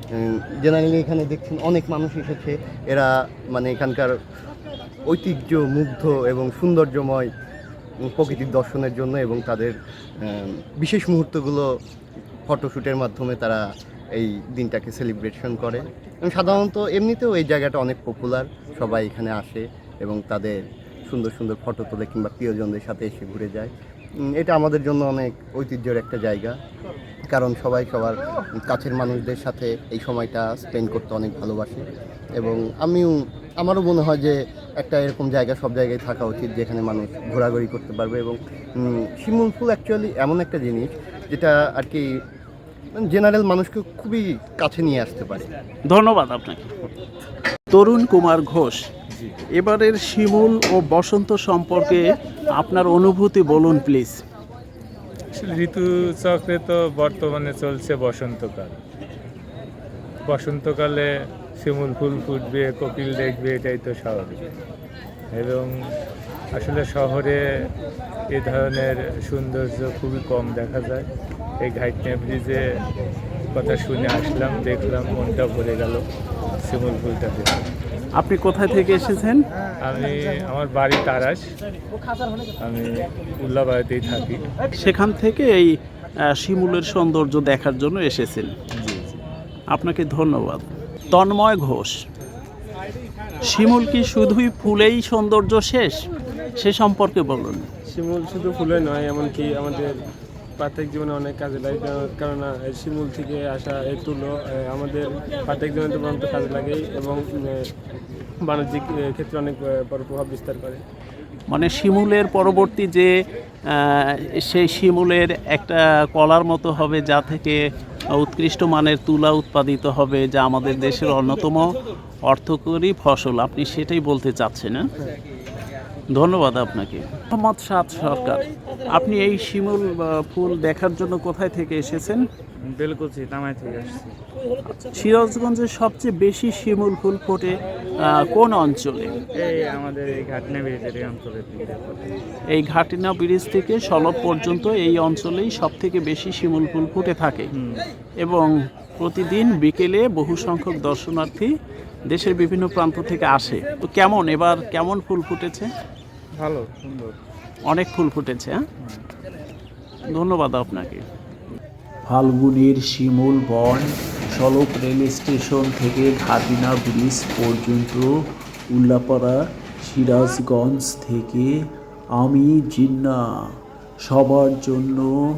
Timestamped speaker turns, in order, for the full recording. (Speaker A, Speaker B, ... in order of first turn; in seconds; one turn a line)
Speaker A: 0.2-4.1
Speaker A: 5.1-7.3
Speaker A: 8.0-11.7
Speaker A: 12.5-13.6
Speaker A: 14.1-23.7
Speaker A: 24.2-26.5
Speaker A: 27.3-42.1
Speaker A: 43.0-45.5
Speaker B: 45.9-46.8
Speaker B: 47.7-48.8
Speaker B: 49.6-54.2
Speaker C: 55.4-58.8
Speaker C: 60.2-61.1
Speaker C: 61.6-64.4
Speaker C: 65.3-65.7
Speaker C: 66.5-67.4
Speaker C: 68.3-71.1
Speaker C: 71.6-72.6
Speaker C: 73.5-76.0
Speaker C: 76.6-77.5
Speaker B: 78.2-79.4
Speaker C: 79.8-81.4
Speaker C: 82.6-84.4
Speaker B: 84.8-85.7
Speaker B: 86.3-88.5
Speaker C: 88.8-89.2
Speaker B: 89.8-91.9
Speaker B: 93.5-96.0
Speaker B: 96.6-97.7
Speaker D: 97.9-99.9
Speaker D: 100.6-107.7
Speaker D: 108.4-110.8
Speaker B: 111.5-113.1
Speaker B: 114.5-117.6
Speaker B: 118.2-121.7
Speaker B: 122.3-124.8
Speaker B: 126.2-132.2
Speaker E: 132.6-134.1
Speaker B: 135.0-137.5
Speaker B: 138.3-139.1
Speaker E: 139.3-142.0
Speaker B: 142.6-147.5
Speaker E: 147.5-147.9
Speaker B: 149.0-151.5
Speaker B: 152.1-155.7
Speaker E: 156.3-157.2
Speaker B: 157.7-158.6
Speaker B: 160.1-161.0
Speaker B: 162.1-168.1
Speaker B: 168.7-171.6
Speaker B: 172.2-173.2
Speaker B: 174.0-175.1